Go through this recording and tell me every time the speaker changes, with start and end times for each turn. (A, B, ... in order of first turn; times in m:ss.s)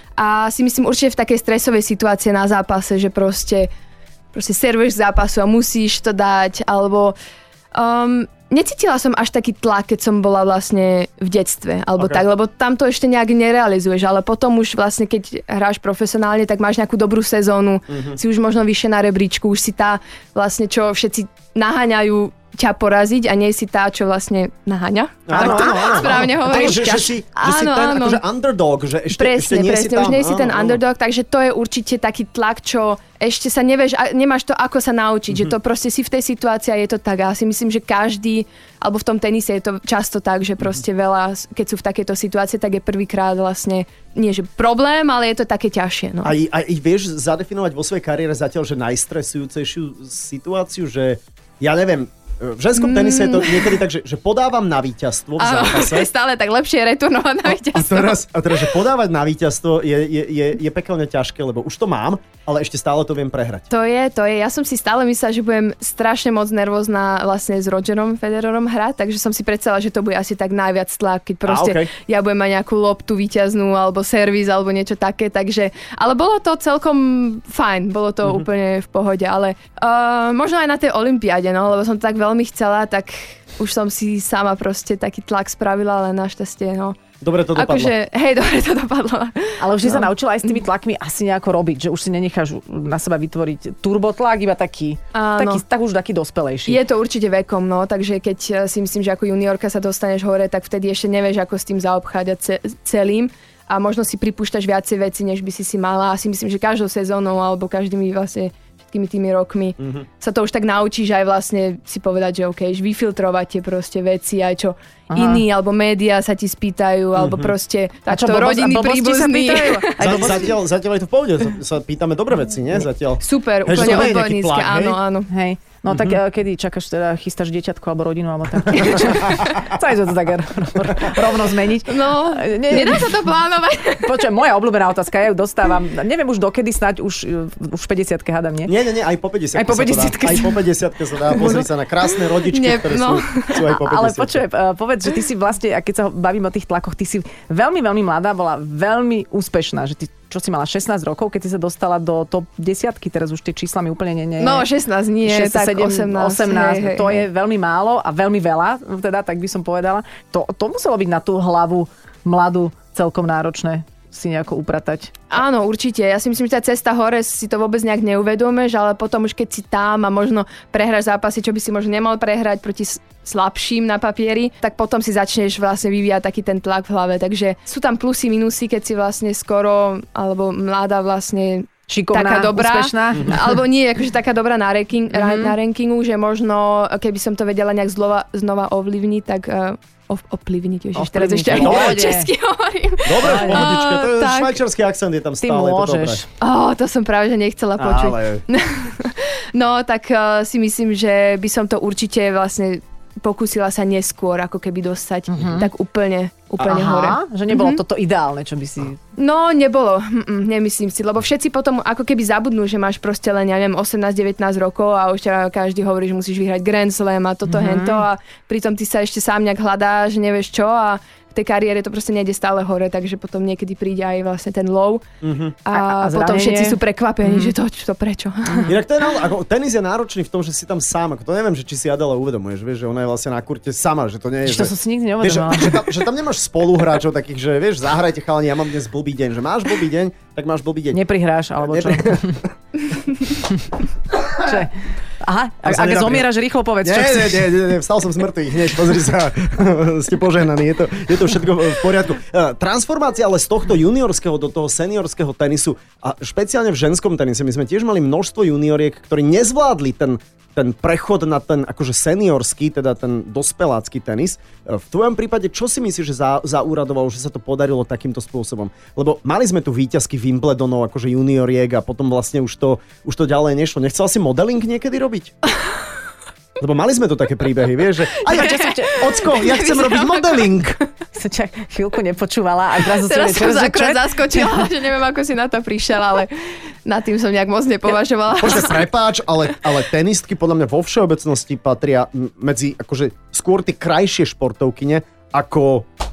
0:00.2-0:03.7 A
0:04.3-0:07.2 A
0:07.8-0:28.2 A
0:17.9-0:18.2 B
0:25.3-0:30.8 B
0:25.3-0:26.9 C
0:29.1-0:46.3 A
0:46.2-0:56.1 B
0:52.8-0:53.8 A
0:55.4-0:58.2 A
0:57.6-1:03.7 B
1:03.7-1:27.0 A
1:11.5-1:11.9 B
1:27.2-1:27.9 B
1:27.5-1:30.1 A
1:29.6-1:36.8 C
1:35.1-1:35.6 A
1:36.7-2:00.5 A
1:49.8-1:50.0 B
1:55.1-1:55.4 C
1:57.2-1:57.5 B
1:58.1-2:00.6 C
2:00.0-2:05.0 B
2:03.2-2:05.3 A
2:03.7-2:04.1 C
2:05.3-2:13.2 C
2:05.9-2:06.2 B
2:11.9-2:14.2 A
2:14.0-2:18.7 C
2:18.7-2:24.4 B
2:19.6-2:20.6 C
2:21.3-2:21.7 C
2:22.4-2:23.6 A
2:23.6-2:34.7 C
2:34.4-2:37.2 A
2:35.2-2:45.2 C
2:45.3-3:14.6 A
3:01.9-3:03.6 C
3:05.1-3:05.6 C
3:11.0-3:12.3 C
3:11.5-3:12.1 B
3:13.0-3:16.2 B
3:13.2-3:13.7 C
3:15.4-3:16.2 C
3:16.4-3:27.8 A
3:17.8-3:18.4 B
3:25.3-3:25.7 C
3:26.6-3:29.0 C
3:29.2-3:45.0 A
3:37.5-3:38.0 C
3:45.2-3:45.6 B
3:45.6-3:48.7 A
3:45.7-3:47.5 C
3:48.7-4:01.0 B
3:54.5-3:56.0 C
4:00.9-4:02.4 C
4:01.6-4:02.4 B
4:04.4-4:07.5 C
4:05.6-4:06.3 B
4:06.8-4:35.3 B
4:36.6-4:40.8 B
4:38.3-4:39.2 C
4:38.3-4:40.6 A
4:41.1-4:44.7 C
4:42.9-4:46.3 A
4:46.8-4:48.8 A
4:48.4-4:55.9 B